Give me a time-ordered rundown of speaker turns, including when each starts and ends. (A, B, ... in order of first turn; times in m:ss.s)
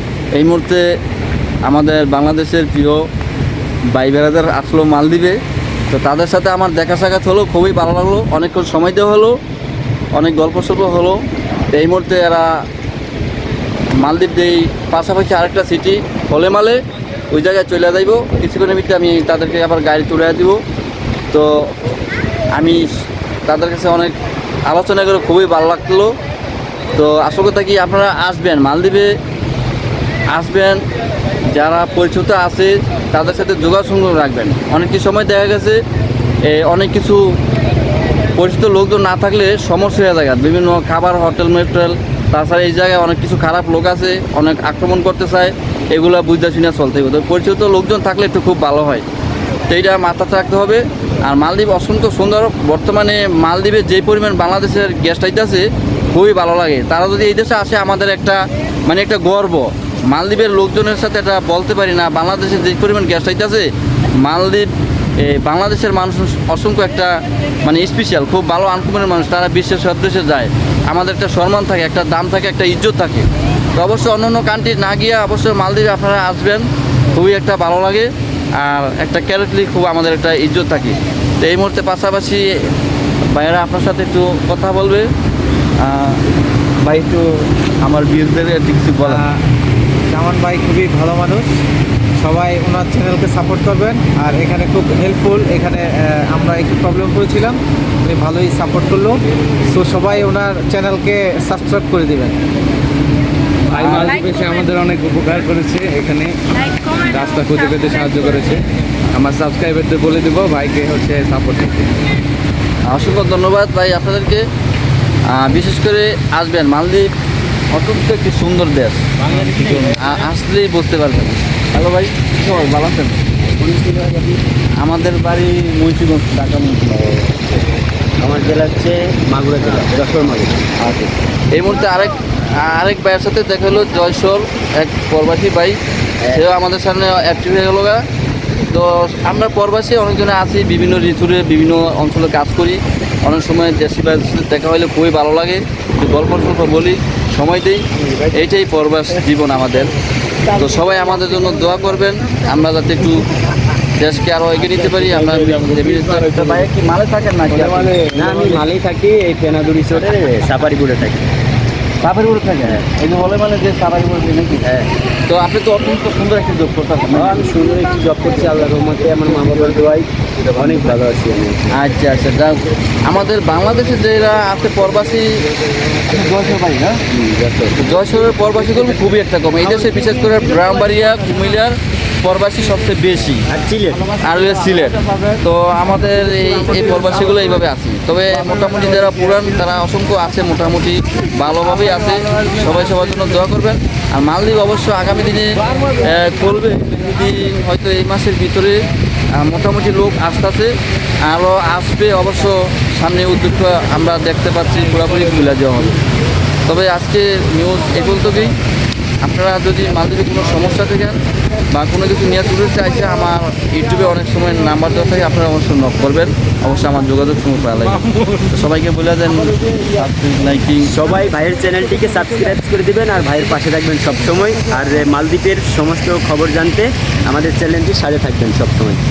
0:00.3-0:00.8 A
0:01.6-0:03.0 A
0:03.9-0:05.4 A
0:05.9-0:09.4 A
0:10.1-0:12.6 A
0:14.0-0:20.6 A
0:21.3-0:21.7 A
0:22.5-0:22.8 A
0:23.5-0:24.1 A
0:24.7-0:26.1 A
0:26.9-0:29.1 A
0:30.3-0:30.8 A
0:31.5-0:35.8 A
0:36.4-0:37.2 A
0:38.4-0:49.0 A
0:49.7-1:03.7 A
1:04.2-1:04.7 A
1:05.2-1:22.4 A
1:23.3-1:25.1 A
1:25.8-1:26.2 A
1:26.8-1:27.3 A
1:27.8-1:29.2 A
1:29.0-1:29.4 B
1:30.1-1:31.5 B
1:32.2-1:39.2 B
1:39.7-1:42.3 B
1:43.7-1:48.6 C
1:43.7-1:44.1 A
1:49.1-1:52.0 C
1:52.9-1:54.4 A
1:55.3-1:57.1 A
1:57.7-2:03.2 A
2:03.4-2:04.4 D
2:04.8-2:07.1 A
2:08.2-2:10.7 D
2:10.8-2:15.8 A
2:16.3-2:18.0 A
2:18.7-2:29.9 A
2:30.5-2:33.2 A
2:34.0-2:38.0 A
2:37.8-2:38.5 C
2:38.1-2:41.3 D
2:42.0-2:44.7 A
2:45.3-2:47.4 A
2:47.1-2:51.8 D
2:50.4-2:50.7 A
2:51.7-2:55.4 A
2:56.1-2:57.0 A
2:57.1-2:57.8 D
2:57.8-3:03.5 A
3:03.5-3:04.0 D
3:04.1-3:18.8 A
3:19.3-3:20.7 A
3:21.2-3:26.0 A
3:26.7-3:28.5 A
3:29.2-3:31.2 A
3:31.7-3:40.9 A
3:40.8-3:49.0 D